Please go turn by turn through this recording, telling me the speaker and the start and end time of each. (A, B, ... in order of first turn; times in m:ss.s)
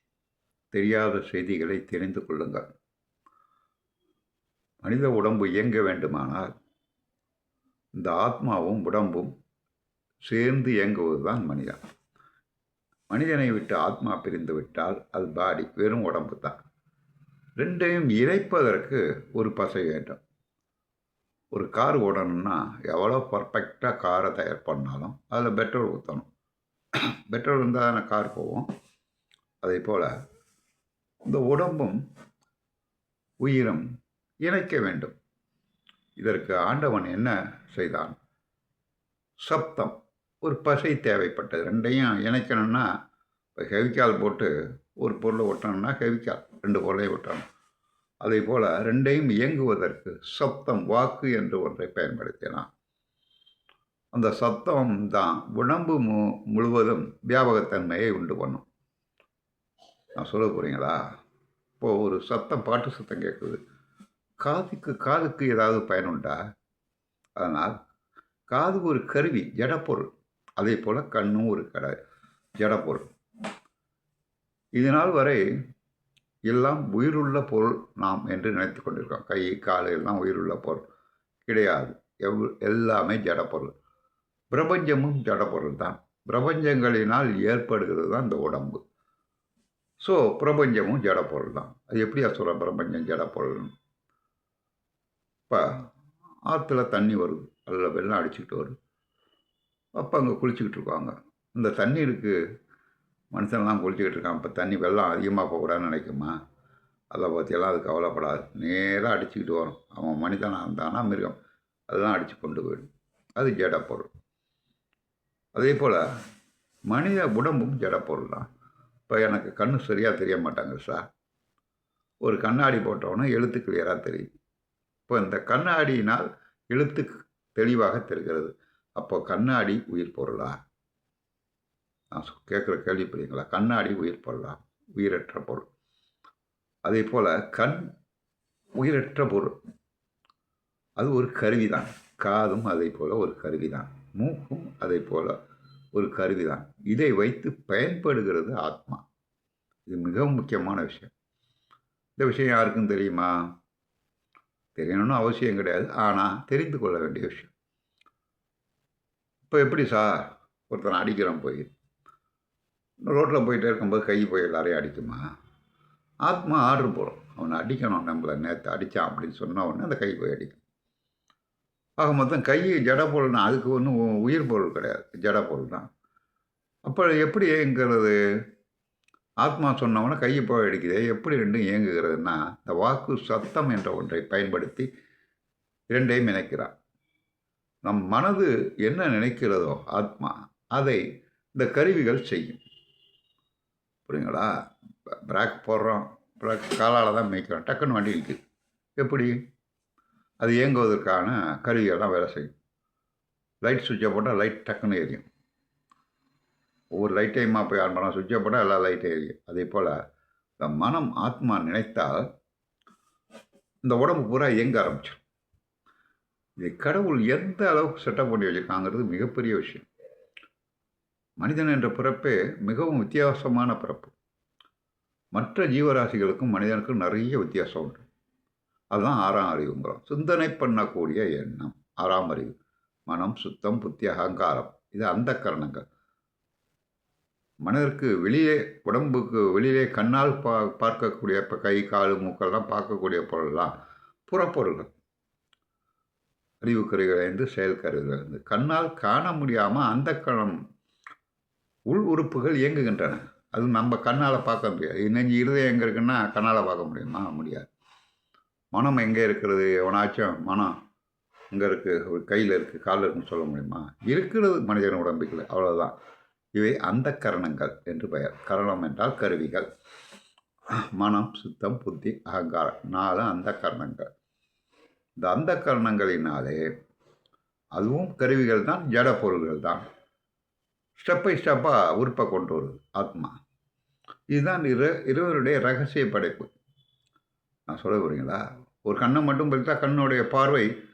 0:00.7-0:02.6 A
0:04.8-0:06.5 A
0:08.0-0:09.3 A
0:10.3-0:11.8 A
0:13.1-0:16.6 A
0:17.6-0:20.2 A
0:21.5-0:26.3 A
0:27.3-0:28.7 A
0:29.6-0:30.1 A
0:31.2-0:32.0 A
0:33.4-0:33.8 A
0:34.4-0:35.2 A
0:36.2-0:38.2 A
0:39.4-0:42.9 A
0:43.6-0:47.4 A
0:48.2-0:52.7 A
0:54.1-0:58.6 A
1:00.2-1:01.0 A
1:01.8-1:03.6 A
1:04.4-1:06.4 A
1:07.4-1:07.8 A
1:08.5-1:12.0 A
1:12.6-1:13.1 A
1:14.8-1:15.4 A
1:16.5-1:20.8 A
1:21.5-1:23.7 A
1:24.5-1:28.8 A
1:30.0-1:33.7 A
1:36.5-1:38.7 A
1:40.0-1:42.4 A
1:43.3-1:46.3 A
1:47.1-1:51.4 A
1:51.9-1:54.1 A
1:55.5-1:56.0 A
1:56.9-1:58.5 A
1:59.1-2:01.0 A
2:02.2-2:04.3 A
2:05.1-2:10.6 A
2:12.1-2:15.7 A
2:16.8-2:17.8 A
2:18.8-2:19.6 A
2:21.0-2:25.3 A
2:25.9-2:29.0 A
2:29.9-2:31.1 A
2:32.2-2:33.3 A
2:34.8-2:37.5 A
2:39.5-2:41.7 A
2:43.0-2:45.2 A
2:46.2-2:50.6 A
2:52.0-2:55.9 A
2:56.8-2:58.1 A
2:59.4-3:04.9 A
3:05.9-3:06.7 A
3:07.8-3:11.0 A
3:11.5-3:12.6 A
3:14.1-3:14.5 A
3:15.2-3:18.4 A
3:19.0-3:19.3 A
3:20.4-3:22.5 A
3:23.6-3:25.2 A
3:27.0-3:29.9 A
3:30.6-3:32.2 A
3:33.8-3:35.2 A
3:36.6-3:39.9 A
3:41.4-3:44.1 A
3:45.3-3:48.0 A
3:48.9-3:52.5 A
3:53.1-3:55.8 A
3:57.6-4:03.7 A
4:04.3-4:04.9 A
4:06.6-4:10.6 A
4:11.9-4:17.7 A
4:18.7-4:20.7 A
4:21.5-4:25.9 A
4:26.6-4:29.7 A
4:31.0-4:34.1 A
4:35.2-4:36.6 A
4:37.8-4:39.8 A
4:41.0-4:43.3 A
4:44.3-4:46.5 A
4:47.7-4:50.7 A